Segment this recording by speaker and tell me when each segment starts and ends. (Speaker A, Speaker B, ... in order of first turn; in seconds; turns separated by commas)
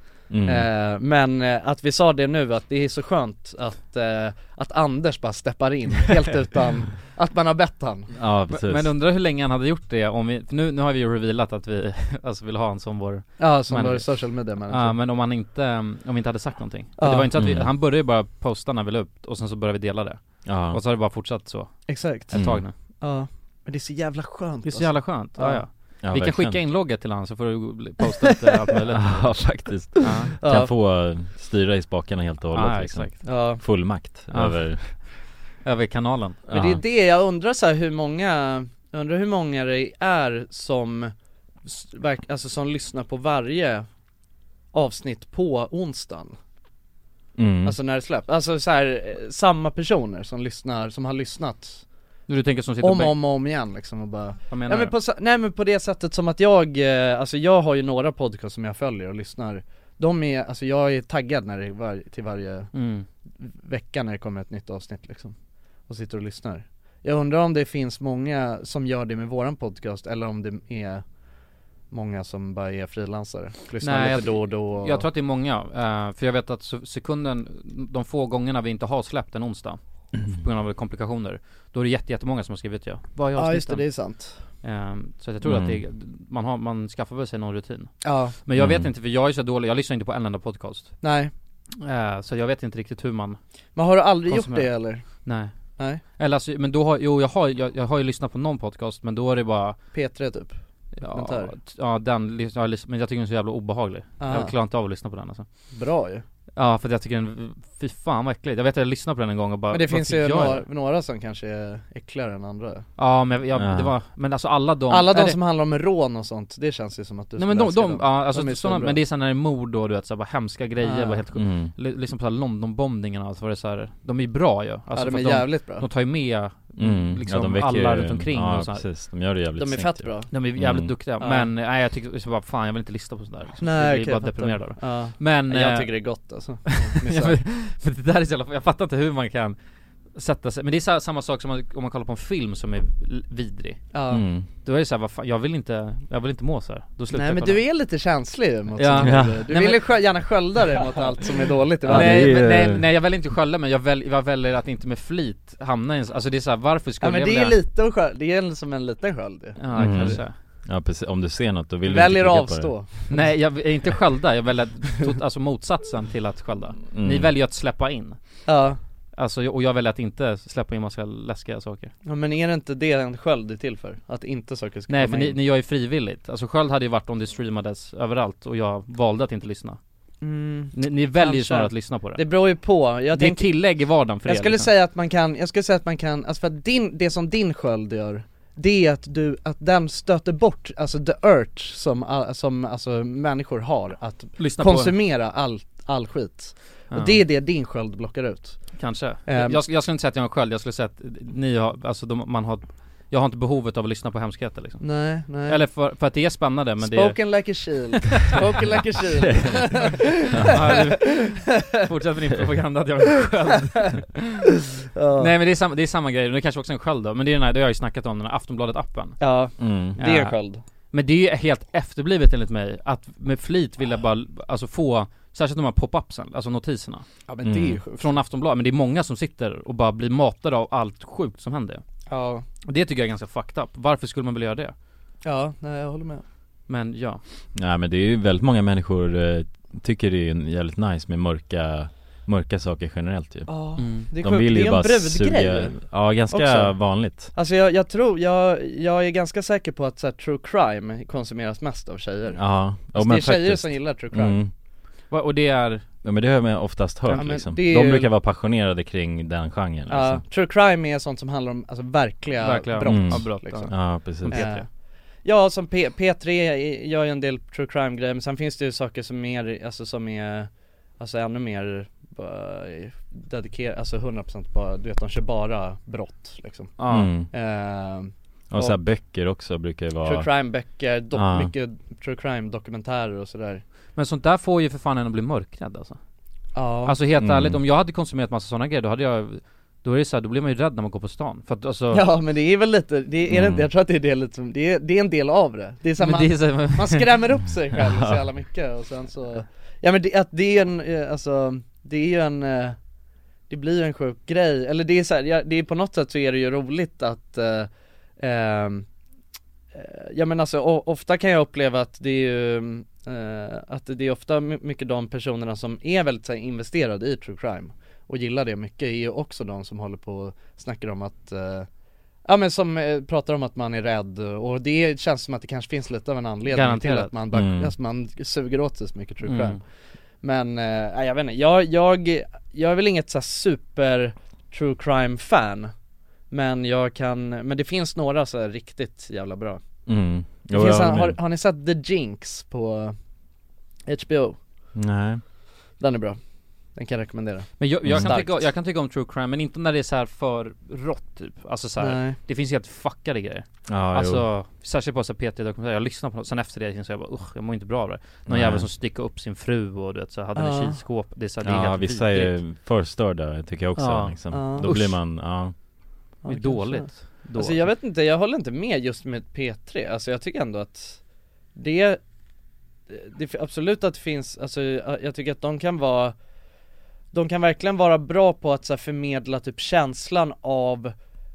Speaker A: 0.3-0.7, Speaker B: 0.4-8.1, Speaker A: 8.1-8.9, Speaker C: 8.5-22.7, Speaker B: 13.4-14.9, Speaker B: 17.0-17.3, Speaker A: 17.4-17.7, Speaker A: 20.4-20.8, Speaker B: 21.9-25.6, Speaker A: 22.3-22.6, Speaker C: 24.6-30.3, Speaker A: 26.0-26.6, Speaker A: 28.9-34.9, Speaker B: 30.0-30.7, Speaker C: 32.5-33.2, Speaker B: 33.2-33.6, Speaker C: 34.3-35.1, Speaker C: 35.6-36.4, Speaker A: 36.5-36.8, Speaker B: 36.5-41.1, Speaker B: 41.6-43.9, Speaker B: 44.7-46.4, Speaker A: 47.4-47.8, Speaker B: 47.6-51.8, Speaker C: 52.3-53.2, Speaker B: 52.8-62.7, Speaker C: 54.5-54.9, Speaker C: 62.7-63.0, Speaker B: 63.4-65.3, Speaker B: 65.9-71.0, Speaker B: 71.9-75.0, Speaker C: 73.8-84.0, Speaker B: 83.3-84.4, Speaker C: 84.6-91.0, Speaker A: 85.4-85.8, Speaker B: 88.0-88.3, Speaker A: 88.5-88.9, Speaker B: 91.0-91.3, Speaker C: 91.8-93.4, Speaker B: 93.8-95.0, Speaker C: 94.3-99.8, Speaker B: 99.9-101.5, Speaker C: 101.0-105.4, Speaker B: 104.2-104.5, Speaker B: 105.7-106.2, Speaker C: 106.5-110.6, Speaker B: 109.7-112.8, Speaker C: 113.0-115.4, Speaker A: 113.5-113.9, Speaker B: 114.9-119.0, Speaker C: 117.4-128.8, Speaker B: 120.8-121.2, Speaker A: 121.3-121.7, Speaker B: 124.9-125.8, Speaker A: 126.8-130.9, Speaker B: 129.6-130.3, Speaker C: 130.3-136.0, Speaker B: 131.2-131.5, Speaker B: 133.6-137.4, Speaker C: 136.7-139.6, Speaker C: 140.1-143.9, Speaker B: 143.9-144.2, Speaker A: 144.1-144.5, Speaker C: 144.6-147.6, Speaker B: 147.1-152.4, Speaker C: 148.8-149.9, Speaker A: 149.0-149.5, Speaker A: 151.8-152.8, Speaker C: 151.9-157.6, Speaker B: 157.0-160.2, Speaker C: 159.6-160.3, Speaker A: 159.7-162.8, Speaker B: 161.9-163.2, Speaker C: 163.1-168.2, Speaker A: 166.9-167.3, Speaker B: 168.4-168.8, Speaker C: 169.2-171.9, Speaker B: 172.0-175.4, Speaker C: 174.9-179.8, Speaker B: 180.2-183.5, Speaker C: 180.7-182.2, Speaker C: 183.1-184.7, Speaker B: 184.2-199.6, Speaker C: 194.4-195.0, Speaker C: 196.9-197.2, Speaker C: 198.8-208.3, Speaker B: 204.8-205.6, Speaker B: 206.8-211.8, Speaker A: 210.3-210.7, Speaker C: 210.4-214.2, Speaker B: 214.9-215.3, Speaker C: 215.2-219.2, Speaker B: 219.2-220.6, Speaker A: 219.6-220.0, Speaker C: 220.0-220.3, Speaker C: 220.9-227.1, Speaker B: 227.3-228.1, Speaker A: 227.4-227.8, Speaker C: 227.9-231.8, Speaker B: 232.1-232.4, Speaker C: 232.6-234.7, Speaker B: 235.2-236.2, Speaker C: 236.7-237.2, Speaker A: 237.5-247.3, Speaker B: 243.5-254.4, Speaker C: 243.8-244.1, Speaker A: 252.3-254.5, Speaker C: 255.1-255.8, Speaker A: 256.0-260.2, Speaker B: 257.1-258.1, Speaker B: 259.9-264.6, Speaker C: 262.4-264.6, Speaker A: 262.9-264.4, Speaker B: 265.2-276.7, Speaker C: 276.8-277.1, Speaker A: 276.9-277.3, Speaker B: 277.3-278.8, Speaker A: 278.5-280.3, Speaker B: 280.0-283.6, Speaker A: 281.1-281.5, Speaker C: 283.9-286.0, Speaker B: 286.5-286.9, Speaker C: 286.9-292.1, Speaker A: 287.2-287.6, Speaker B: 291.9-302.8, Speaker A: 293.3-293.7, Speaker C: 296.0-297.2, Speaker A: 297.8-298.2, Speaker B: 303.5-308.9, Speaker B: 309.7-321.7, Speaker B: 322.2-329.6, Speaker C: 326.5-327.1, Speaker A: 327.3-327.7, Speaker C: 329.2-329.6, Speaker B: 330.2-335.7, Speaker B: 336.3-339.6, Speaker A: 339.9-341.2, Speaker B: 340.5-342.9, Speaker B: 343.9-344.4, Speaker A: 344.7-345.2, Speaker B: 345.8-346.2, Speaker B: 346.7-348.5, Speaker C: 347.6-362.4, Speaker A: 347.8-348.1, Speaker B: 351.8-352.2, Speaker A: 353.7-354.2, Speaker A: 358.3-358.7, Speaker B: 360.4-360.8, Speaker A: 361.4-365.5, Speaker C: 363.8-364.2, Speaker B: 364.3-364.9, Speaker B: 366.2-371.0, Speaker C: 366.2-367.7, Speaker B: 371.5-372.0, Speaker B: 372.9-376.1, Speaker B: 377.1-380.9